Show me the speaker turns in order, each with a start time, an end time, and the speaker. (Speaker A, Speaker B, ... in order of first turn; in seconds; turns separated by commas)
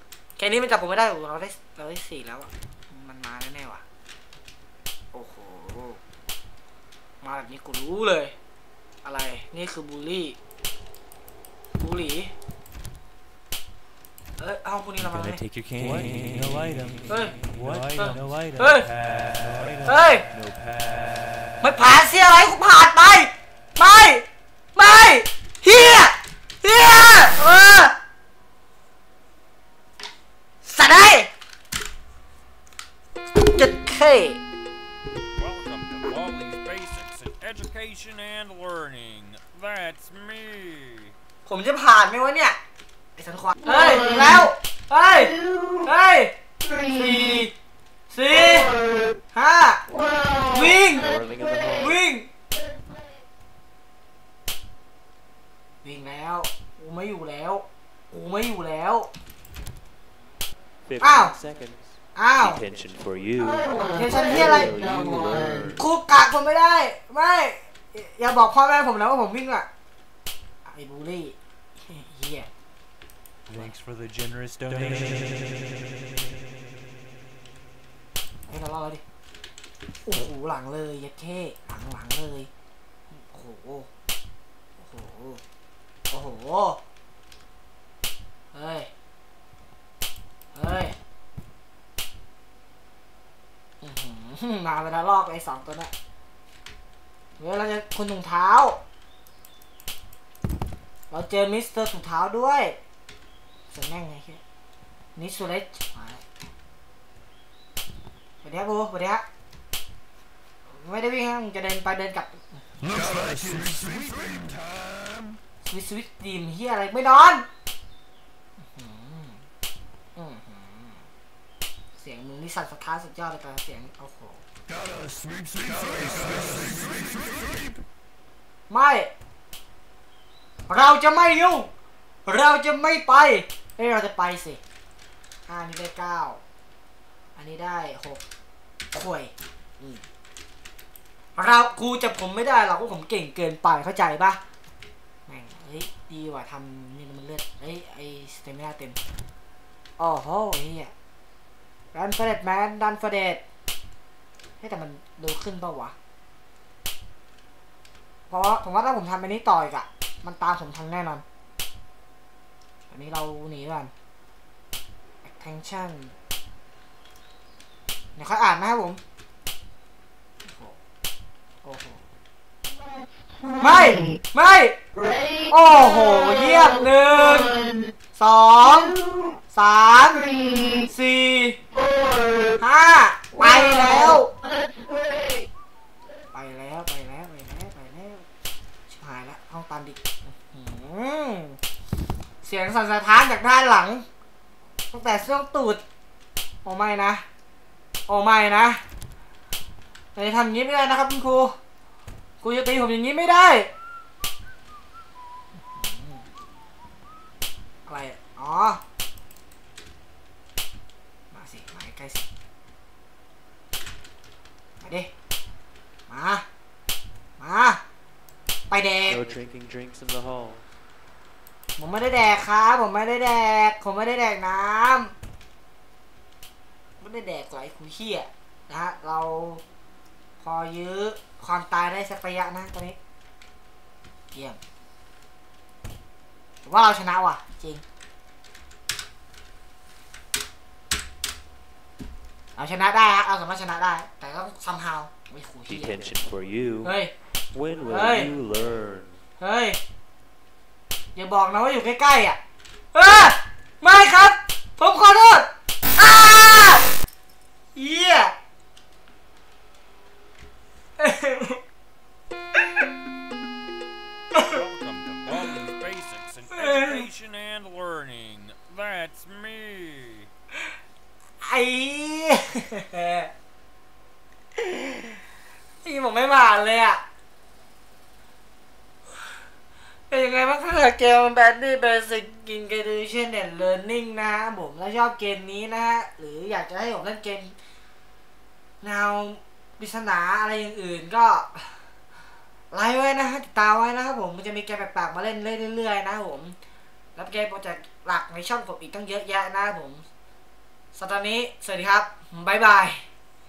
Speaker A: 0.4-3.8, Speaker A: 5.1-6.0, Speaker A: 7.2-8.3, Speaker A: 9.0-10.4, Speaker A: 11.8-12.3, Speaker A: 14.4-15.4, Speaker B: 15.0-21.5, Speaker C: 15.8-20.5, Speaker A: 17.1-17.3, Speaker A: 17.9-18.9, Speaker A: 19.8-20.2, Speaker A: 21.6-27.9, Speaker A: 30.6-31.3, Speaker A: 33.4-34.4, Speaker D: 35.3-41.1, Speaker A: 41.5-42.6, Speaker A: 43.2-46.3, Speaker A: 46.9-47.5, Speaker A: 48.1-48.7, Speaker A: 49.3-49.8, Speaker A: 50.4-51.1, Speaker C: 50.9-52.0, Speaker A: 51.8-52.3, Speaker A: 55.8-59.1, Speaker C: 60.8-65.8, Speaker A: 61.0-61.3, Speaker A: 62.1-62.6, Speaker A: 63.9-64.7, Speaker A: 65.8-69.7, Speaker A: 70.7-71.3, Speaker A: 71.9-72.5, Speaker B: 73.8-75.6, Speaker C: 74.7-75.2, Speaker A: 78.5-79.0, Speaker A: 80.0-82.5, Speaker A: 83.1-83.9, Speaker A: 84.8-85.4, Speaker A: 86.1-86.8, Speaker A: 88.5-88.9, Speaker A: 90.5-90.9, Speaker A: 93.8-95.9, Speaker A: 97.4-98.8, Speaker A: 101.1-102.8, Speaker A: 103.7-104.4, Speaker A: 105.2-106.2, Speaker A: 108.4-109.2, Speaker A: 110.7-113.5, Speaker A: 115.6-117.4, Speaker A: 118.6-119.4, Speaker A: 120.2-121.0, Speaker A: 122.0-124.4, Speaker A: 128.7-129.1, Speaker A: 130.7-131.7, Speaker A: 132.2-134.6, Speaker A: 135.5-136.4, Speaker A: 137.3-138.2, Speaker A: 138.9-140.0, Speaker A: 141.3-144.4, Speaker A: 145.3-149.0, Speaker A: 150.0-150.9, Speaker A: 151.9-153.4, Speaker A: 154.6-155.9, Speaker A: 158.3-161.2, Speaker A: 162.9-163.9, Speaker A: 165.2-166.1, Speaker A: 168.2-169.0, Speaker A: 170.4-170.8, Speaker A: 171.6-172.0, Speaker A: 173.6-174.8, Speaker A: 175.5-177.6, Speaker A: 178.2-179.0, Speaker A: 179.5-181.6, Speaker A: 182.6-184.3, Speaker A: 186.3-188.2, Speaker A: 188.9-191.6, Speaker A: 192.4-194.0, Speaker A: 194.9-195.8, Speaker A: 196.6-197.2, Speaker A: 198.1-198.8, Speaker A: 200.1-201.5, Speaker A: 202.4-203.7, Speaker A: 205.7-206.2, Speaker A: 207.8-208.8, Speaker A: 211.3-212.2, Speaker A: 214.8-215.1, Speaker A: 216.1-216.4, Speaker A: 217.4-217.8, Speaker A: 218.7-219.2, Speaker C: 219.1-220.7, Speaker A: 221.8-225.1, Speaker A: 227.0-229.6, Speaker A: 230.4-233.0, Speaker A: 234.3-234.6, Speaker A: 236.6-237.8, Speaker A: 242.6-246.1, Speaker C: 245.7-246.9, Speaker A: 246.8-247.1, Speaker C: 247.5-249.2, Speaker A: 247.8-248.3, Speaker A: 249.4-249.8, Speaker A: 251.1-252.4, Speaker A: 252.9-256.8, Speaker A: 257.7-258.3, Speaker A: 261.0-261.6, Speaker D: 264.4-270.3, Speaker A: 266.5-267.1, Speaker A: 271.4-273.3, Speaker A: 274.6-275.2, Speaker A: 275.8-277.0, Speaker A: 280.1-287.5, Speaker A: 288.8-291.8, Speaker A: 292.7-296.6, Speaker A: 297.1-300.0, Speaker A: 300.9-303.0